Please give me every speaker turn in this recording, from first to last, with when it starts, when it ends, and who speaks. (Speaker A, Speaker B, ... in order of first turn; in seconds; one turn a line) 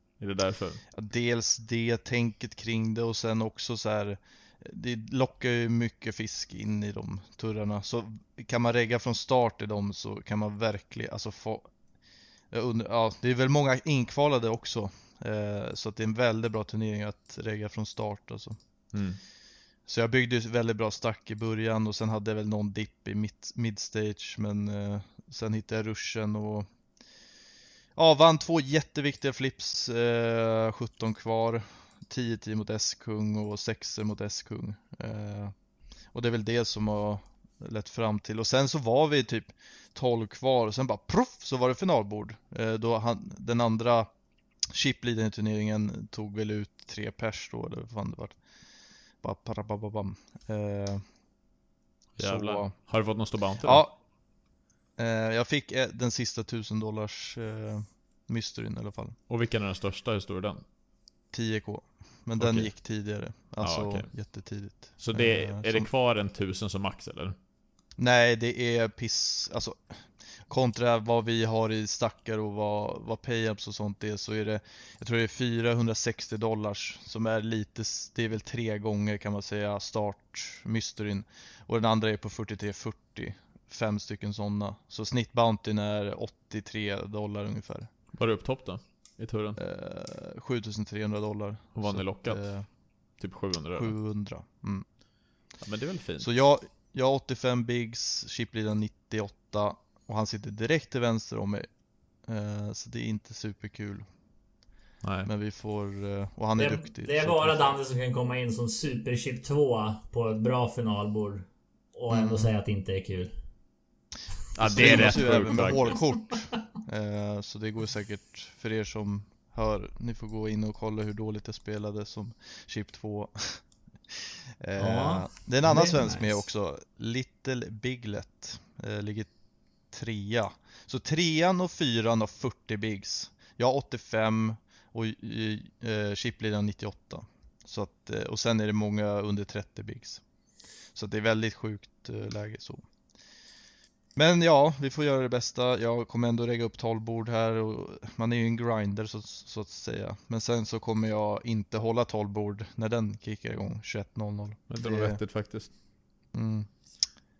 Speaker A: 0.2-0.8
Speaker B: 0.9-11.7
Speaker B: 12.5-18.6
Speaker A: 18.9-19.2
Speaker B: 19.9-26.7
Speaker B: 28.0-35.5
Speaker B: 36.1-44.1
Speaker B: 44.7-48.4
Speaker B: 49.2-51.0
Speaker B: 52.2-52.9
Speaker A: 52.2-53.9
Speaker B: 53.6-54.0
Speaker B: 55.0-59.2
Speaker A: 59.3-60.6
Speaker B: 61.3-65.9
Speaker A: 62.4-62.7
Speaker A: 63.6-64.1
Speaker A: 65.0-67.3
Speaker B: 68.0-87.9
Speaker A: 88.1-89.6
Speaker B: 89.6-92.7
Speaker A: 91.8-92.5
Speaker A: 93.2-93.9
Speaker B: 93.8-94.8
Speaker A: 95.6-96.3
Speaker B: 96.2-101.7
Speaker B: 102.2-104.1
Speaker A: 105.0-105.3
Speaker B: 105.2-107.8
Speaker C: 106.6-113.3
Speaker B: 112.1-112.5
Speaker A: 114.5-115.9
Speaker B: 114.6-129.3
Speaker C: 114.8-116.0
Speaker C: 124.8-126.4
Speaker B: 129.9-140.2
Speaker B: 140.9-142.9
Speaker B: 144.2-155.2
Speaker A: 154.7-155.7
Speaker B: 156.3-156.7